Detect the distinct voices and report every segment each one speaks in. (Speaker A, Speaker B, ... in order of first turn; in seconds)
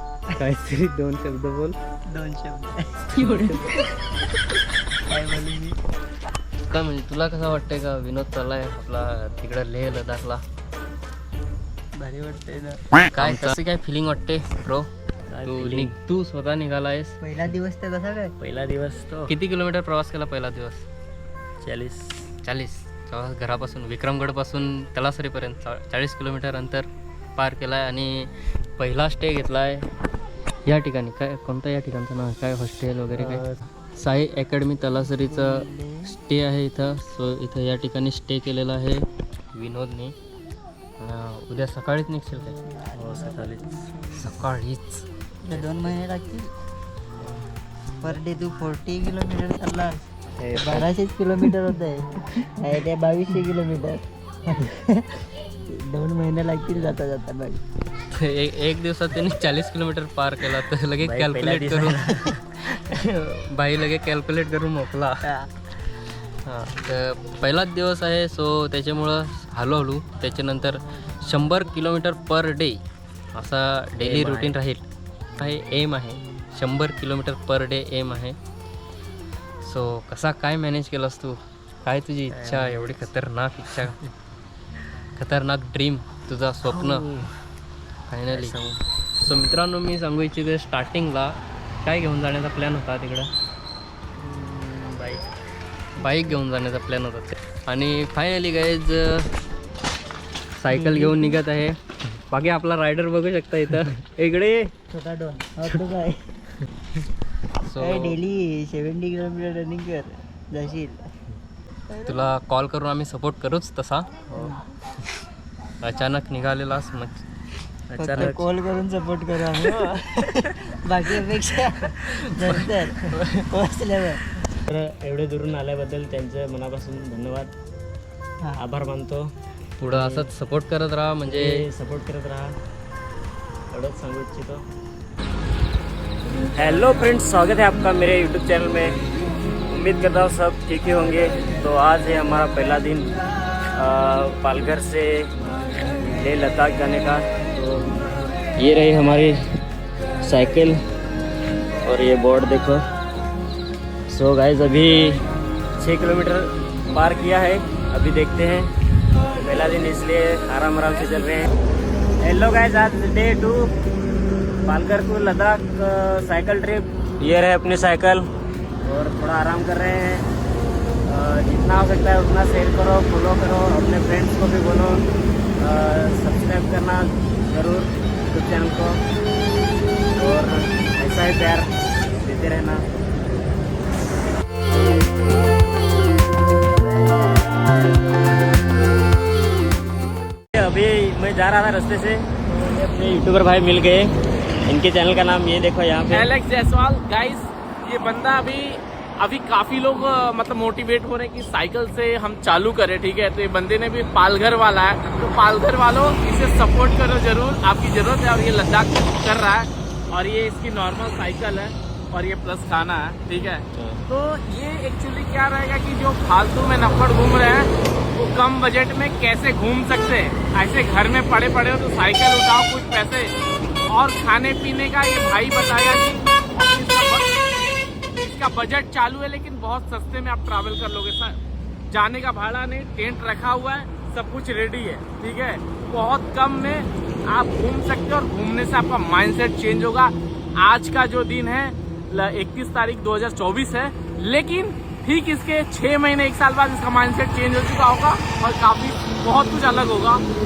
Speaker A: 0.3-1.8, 3.2-3.6, 6.7-10.4, 13.1-14.9, 15.4-17.2, 19.3-20.9, 22.4-29.9, 30.6-33.4, 34.0-40.1, 41.0-42.6, 44.1-45.0, 58.1-65.2, 66.4-72.8, 73.3-74.8, 75.3-78.4, 79.6-84.0, 85.2-87.1, 88.1-88.5, 89.2-93.3, 96.0-99.3, 100.5-104.7, 107.6-108.2, 112.0-114.5, 115.8-117.2, 118.0-118.4, 121.9-122.6, 129.8-131.7
Speaker B: 2.1-3.8, 5.0-5.8, 12.0-13.0, 17.2-18.3, 35.2-36.1, 42.7-44.2, 45.4-46.5, 48.0-55.1, 55.7-57.6, 96.0-96.3, 100.7-101.4, 104.9-106.3, 107.8-111.0, 111.9-112.2, 114.3-114.6, 118.0-124.2
Speaker C: 13.2-13.5, 15.3-15.9, 18.4-19.3, 21.6-22.3, 33.2-33.5, 42.9-43.8, 50.4-50.9, 61.0-62.3, 74.0-74.5, 82.3-83.1, 86.7-87.3, 88.3-88.8, 94.2-95.2, 117.9-118.4, 124.7-127.5, 128.6-129.3, 129.9-130.3, 131.3-132.5, 133.7-134.6, 136.5-139.0, 139.7-143.1, 143.8-145.3, 146.0-147.9, 148.6-149.4, 150.2-150.8, 151.8-152.8, 154.1-155.2, 155.8-158.7, 159.4-161.5, 162.2-163.7, 164.6-168.2, 168.8-170.2, 171.1-175.0, 175.6-179.0, 180.1-181.7, 182.2-182.8, 190.5-194.1, 194.7-196.3, 213.7-214.0
Speaker D: 196.1-223.3, 223.9-227.3, 228.2-231.4, 231.9-250.2